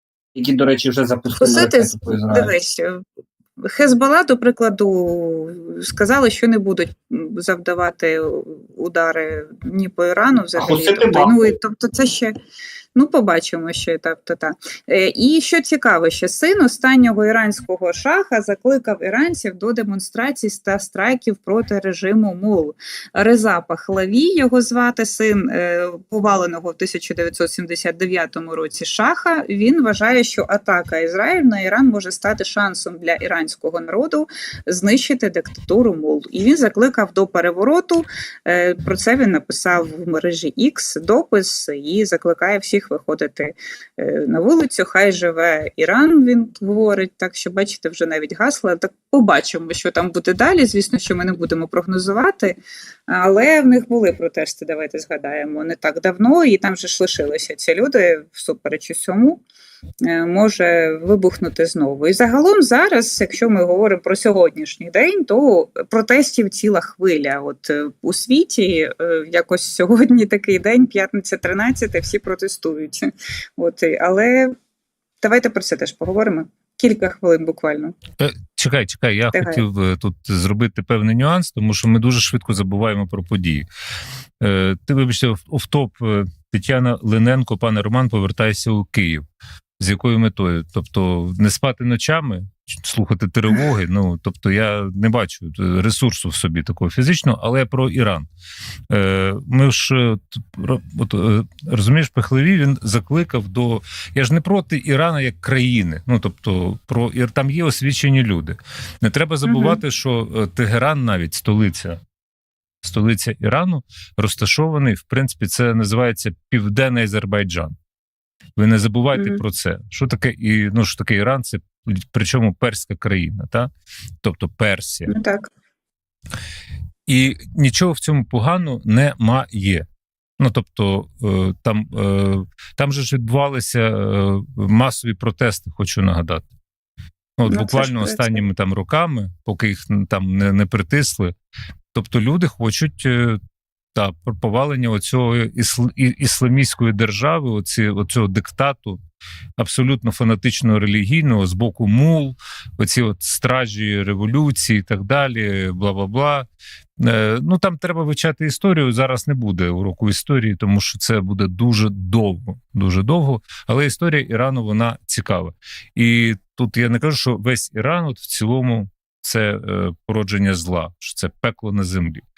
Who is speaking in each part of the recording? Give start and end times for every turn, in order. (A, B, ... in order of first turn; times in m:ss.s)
0:00.3-0:02.5 A
0:01.4-0:03.0 B
0:03.6-0:12.4 B
0:10.6-0:11.6 A
0:13.0-0:52.6 B
0:53.1-0:59.4 B
1:00.0-1:14.6 B
1:15.2-1:18.0 B
1:18.2-1:23.7 C
1:19.3-1:19.6 B
1:24.4-1:29.2 C
1:29.8-1:38.3 C
1:38.9-1:52.0 C
1:49.5-1:49.8 B
1:52.8-1:57.8 C
1:58.6-2:03.7 C
1:59.2-1:59.4 B
2:04.2-2:05.1 C
2:05.1-2:05.5 B
2:07.1-2:09.8 C
2:10.4-2:16.5 C
2:17.4-2:21.3 C
2:17.5-2:18.4 B
2:21.9-2:23.4 C
2:24.0-2:29.0 C
2:29.6-2:36.5 C
2:37.0-2:52.2 C